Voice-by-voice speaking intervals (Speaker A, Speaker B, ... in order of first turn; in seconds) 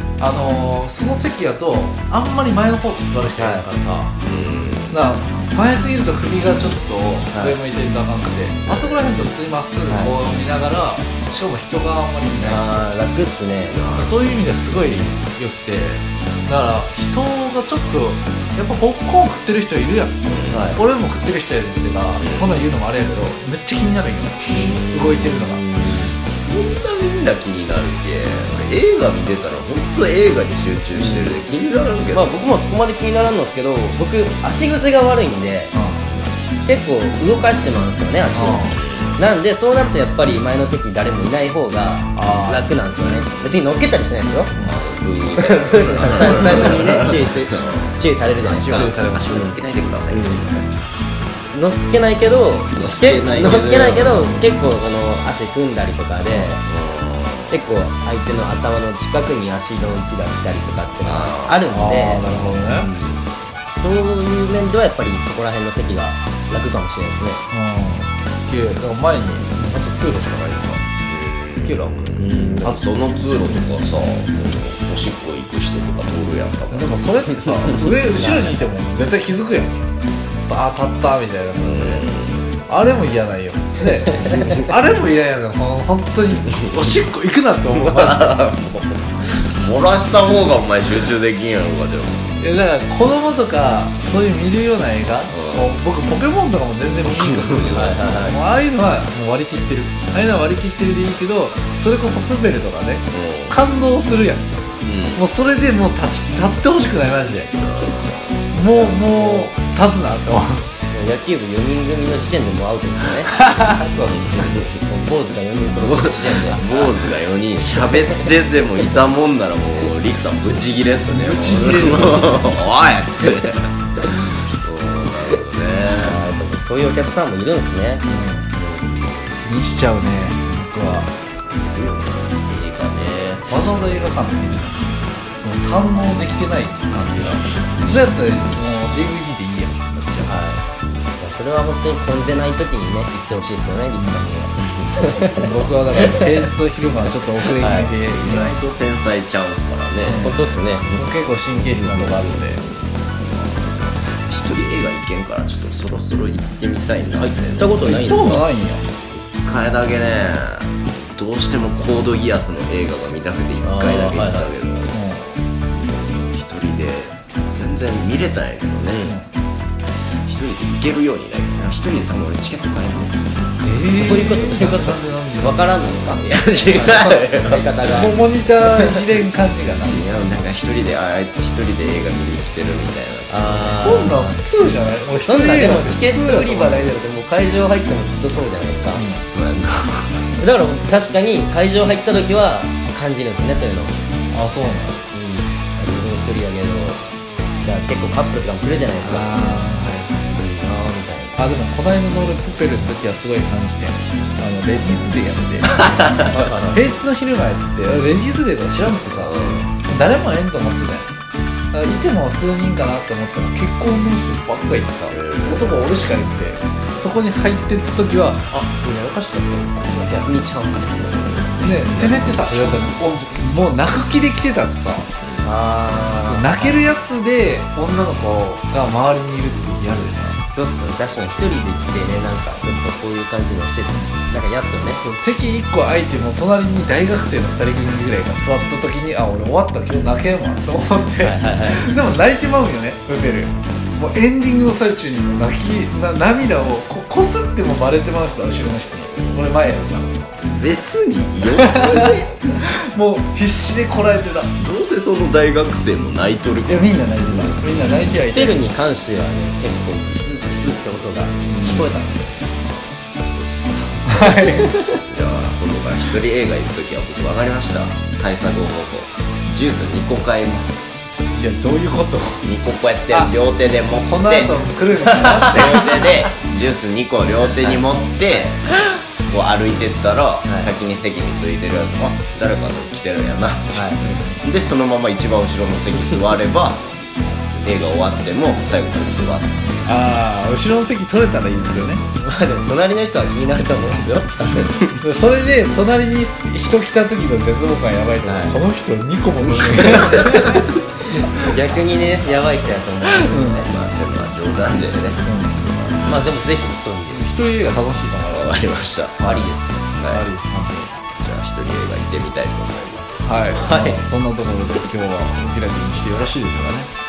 Speaker A: 0.2-4.1, 4.9-12.7, 13.9-25.6, 35.7-36.2, 38.3-38.8, 42.1-42.8, 46.1-46.9, 48.7-49.4, 56.3-56.5, 61.7-62.9, 67.5-70.9, 71.5-72.7, 76.7-79.8, 80.4-82.1, 82.7-88.5, 92.4-107.6, 108.5-110.7, 113.3-114.5, 121.0-122.4, 128.1-128.5, 129.4-131.1, 133.5-140.3, 145.3-148.6, 150.0-152.6, 157.8-158.9, 164.9-165.2, 169.0-169.3, 173.6-175.9, 177.9-180.1, 183.7-186.9, 188.9-189.2, 194.3-195.0, 199.0-200.4, 201.4-211.1, 211.7-220.1, 221.6-225.1, 226.3-230.4, 234.9-250.4, 251.6-254.6, 256.6-258.7, 261.5-261.9, 264.1-264.8, 271.3-272.5, 273.1-273.3, 274.0-276.3, 284.1-284.4, 289.9-292.0, 294.9-301.4, 303.0-303.6, 305.2-305.7, 307.1-308.7, 309.2-309.5, 310.1-311.0, 313.2-316.9
Speaker B: 3.4-3.6, 7.3-7.6, 12.4-13.8, 20.5-20.8, 24.5-26.1, 30.9-31.4, 32.1-35.7, 36.6-44.5, 45.3-49.6, 50.1-50.4, 51.5-56.6, 57.5-67.4, 72.2-72.8, 77.8-78.6, 97.7-98.4, 108.7-109.5, 110.9-113.3, 114.8-116.7, 125.9-128.1, 140.2-146.4, 147.5-147.9, 150.2-150.9, 157.2-158.4, 163.6-164.5, 168.9-169.2, 173.9-178.2, 183.3-184.4, 185.2-189.0, 190.4-194.0, 195.1-197.0, 197.6-199.7, 200.3-201.4, 206.3-206.8, 219.9-221.3, 225.4-226.8, 230.5-235.0, 241.2-241.9, 258.1-262.3, 277.6-278.4, 280.4-280.7, 283.7-284.0, 292.1-294.8, 298.2-298.6, 301.4-303.7, 306.0-307.3, 309.2-309.8, 313.6-314.0
Speaker C: 4.2-5.0, 8.7-9.2, 13.7-14.4, 20.3-20.7, 22.2-22.7, 26.2-32.4, 38.7-39.2, 43.2-43.7, 44.5-50.7, 52.7-54.5, 56.6-57.7, 61.0-61.6, 62.2-62.6, 71.1-77.0, 81.6-82.6, 87.7-92.4, 95.3-95.8, 97.0-98.0, 103.1-103.6, 104.8-105.2, 107.5-108.5, 114.3-114.6, 115.7-126.2, 128.5-129.5, 131.5-133.6, 148.2-151.1, 151.6-158.4, 159.0-169.1, 170.2-173.6, 176.2-178.0, 179.7-184.1, 188.9-190.3, 205.8-206.4, 209.1-209.7, 215.1-215.8, 221.1-223.0, 225.2-225.5, 249.2-249.5, 250.4-252.4, 254.6-258.2, 263.2-271.2, 272.4-274.6, 275.4-286.9, 287.6-289.9, 291.6-292.3, 299.6-300.6, 303.7-306.2, 308.3-309.2, 310.0-310.2, 311.1-313.4